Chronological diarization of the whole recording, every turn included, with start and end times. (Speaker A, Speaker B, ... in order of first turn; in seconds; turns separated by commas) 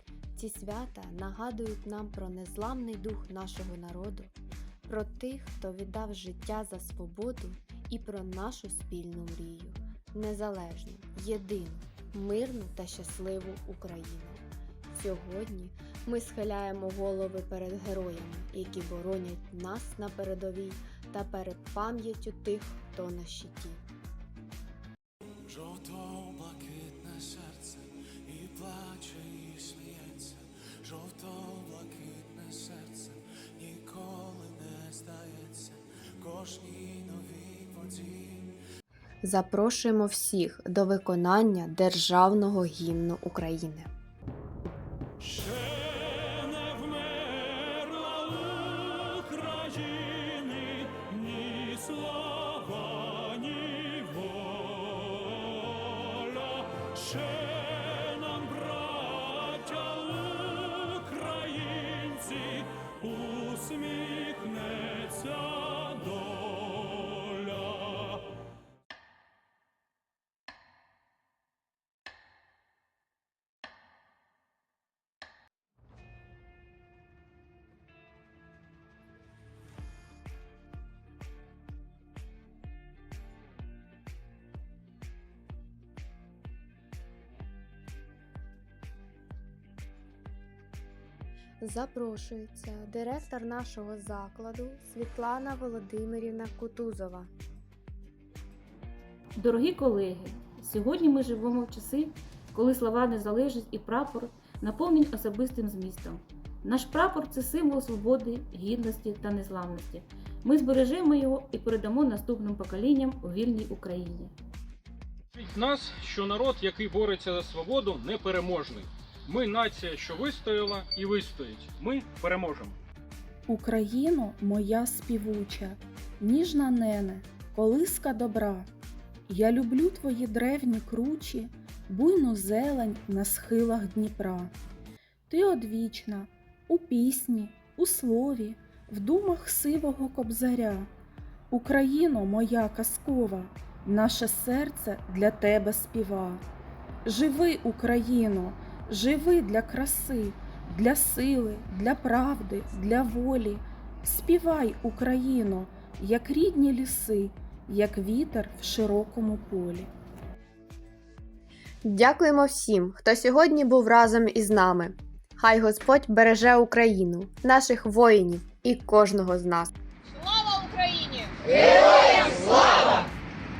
Speaker A: 0.3-4.3, Speaker A: 4.9-23.8, Speaker B: 25.4-38.6, Speaker A: 39.2-43.9, Speaker C: 45.6-55.3, Speaker C: 56.0-68.0, Speaker A: 91.6-97.3, Speaker D: 99.3-114.3, Speaker E: 115.3-122.8, Speaker C: 123.5-128.7, Speaker C: 129.3-134.5, Speaker C: 135.3-140.9, Speaker C: 141.5-146.4, Speaker C: 147.0-159.9, Speaker A: 161.8-169.7, Speaker F: 170.1-172.8